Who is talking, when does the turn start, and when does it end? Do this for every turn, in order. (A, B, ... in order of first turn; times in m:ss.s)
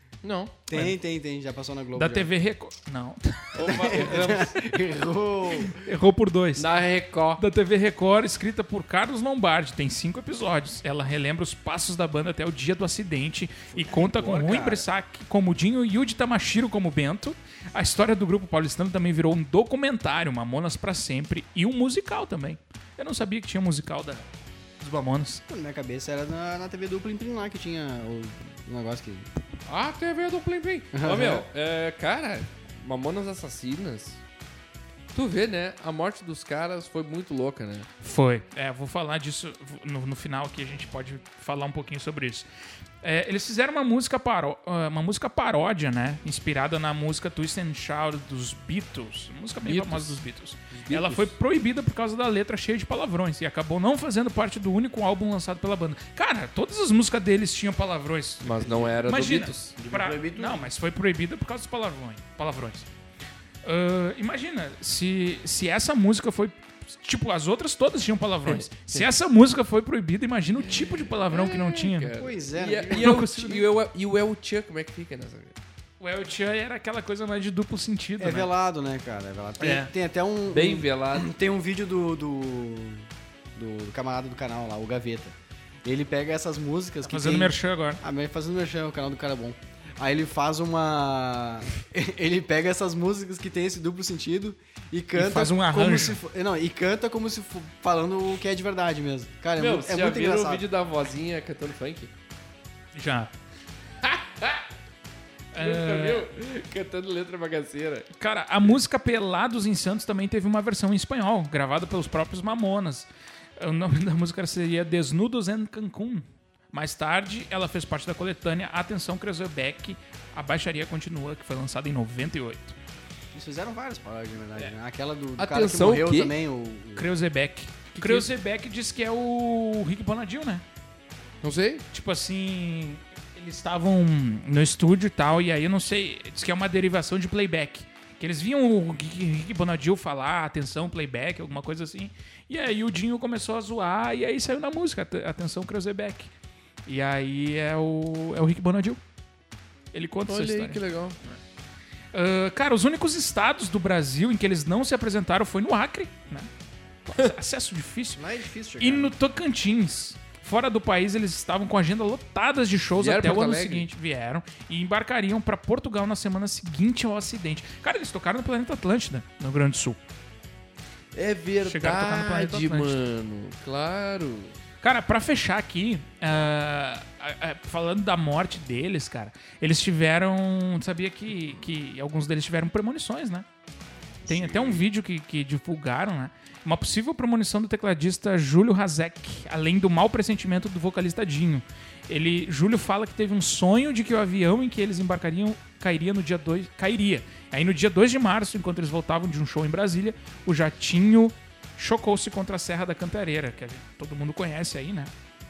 0:00.2-0:00.6 A
0:00.7-0:02.3 B
0:02.0-0:03.9 C
0:03.6-0:04.6 A
0:03.6-0:05.8 B
0:05.7-0:06.6 C
0:06.6-0:07.4 A
0:07.4-0:24.3 C
0:13.7-0:14.9 B
0:24.8-0:25.4 C
0:25.5-0:29.3 B
0:29.7-0:34.2 A
0:30.9-0:31.5 B
0:35.1-0:37.9 A
0:38.0-0:42.5 C
0:43.0-1:02.9 C
0:49.6-0:51.3 A
0:58.4-0:59.8 A
0:58.6-0:58.9 B
0:59.8-1:00.7 B
1:03.6-1:12.1 C
1:08.5-1:09.1 A
1:10.6-1:15.6 A
1:12.2-1:13.3 B
1:12.9-1:13.6 C
1:16.0-1:18.5 C
1:18.2-1:40.6 B
1:19.6-1:19.9 C
1:20.5-1:21.3 A
1:27.0-1:28.0 C
1:35.2-1:36.2 C
1:39.6-1:42.1 A
1:43.0-1:43.3 C
1:44.0-1:44.7 A
1:45.5-1:46.3 C
1:45.6-1:48.1 A
1:48.2-2:02.8 C
2:03.3-2:07.1 B
2:05.4-2:06.3 A
2:07.0-2:10.6 C
2:08.0-2:08.3 A
2:11.4-2:11.8 A
2:11.9-2:26.3 C
2:26.9-2:29.0 C
2:29.9-2:31.4 C
2:30.3-2:31.2 A
2:32.1-2:36.5 C
2:37.1-2:38.2 C
2:38.2-2:39.2 B
2:38.8-2:50.0 C
2:43.0-2:43.9 A
2:51.1-2:54.6 A
2:51.6-2:53.0 C
2:54.8-3:03.5 C
3:04.3-3:04.7 A
3:04.3-3:25.1 C